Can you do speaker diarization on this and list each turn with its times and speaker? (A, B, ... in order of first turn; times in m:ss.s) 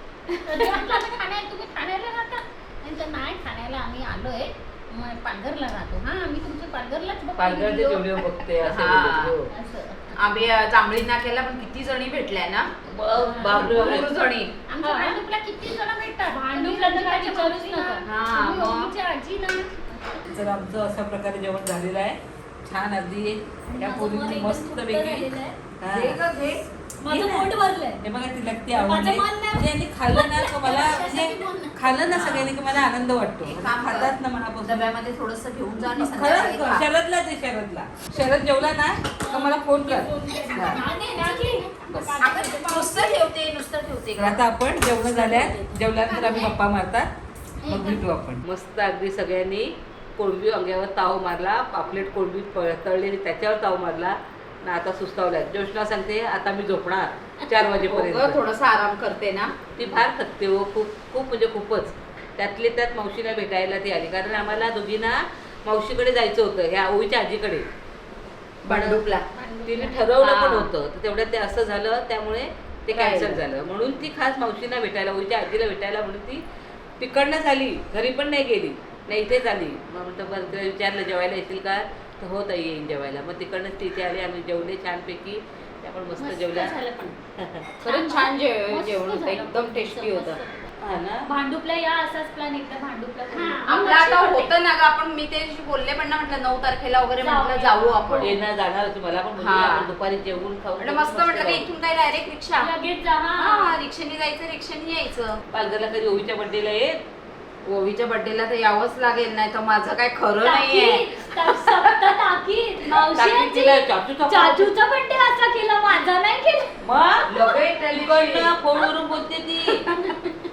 0:00.4-0:01.0 A
0:00.4-0:08.2 B
0:07.4-0:09.5 C
0:08.6-0:09.4 D
0:09.5-0:10.2 B
0:10.2-0:12.7 D
0:12.9-0:14.1 C
0:13.4-0:14.5 D
0:13.5-0:13.9 B
0:14.7-0:18.4 B
0:14.8-0:15.2 A
0:16.5-0:20.3 A
0:18.0-0:18.9 D
0:20.2-0:25.3 C
0:23.7-0:25.6 A
0:25.8-0:26.2 C
0:25.9-0:26.7 D
0:27.0-0:28.0 A
0:27.1-0:27.5 C
0:28.0-0:34.9 C
0:28.7-0:31.1 A
0:30.7-0:32.4 B
0:33.4-0:36.9 D
0:36.0-0:40.8 C
0:39.2-0:43.2 A
0:40.7-0:41.7 B
0:41.9-0:44.5 D
0:44.2-0:47.1 C
0:46.0-0:46.6 B
0:47.6-0:48.0 B
0:47.7-0:58.4 C
0:57.8-0:59.6 D
0:59.8-1:07.7 C
1:08.6-1:09.3 D
1:08.7-1:09.0 C
1:09.4-1:10.0 B
1:09.6-1:16.4 C
1:10.2-1:10.7 D
1:12.9-1:13.6 D
1:17.0-1:26.8 C
1:26.2-1:27.2 B
1:27.4-1:27.7 C
1:27.8-1:30.7 B
1:27.8-1:30.4 D
1:30.8-1:31.3 C
1:31.3-1:34.5 A
1:33.3-1:33.9 B
1:33.7-1:38.4 D
1:37.2-1:38.4 A
1:38.2-1:41.7 C
1:39.4-1:39.9 D
1:40.8-1:42.7 D
1:42.6-1:43.8 A
1:43.4-1:45.4 D
1:45.5-1:47.0 C
1:47.6-1:51.7 D
1:50.4-1:56.8 A
1:52.9-1:54.7 C
1:56.8-1:57.3 C
1:57.3-1:58.5 D
1:57.9-1:59.9 C
1:59.9-2:00.3 A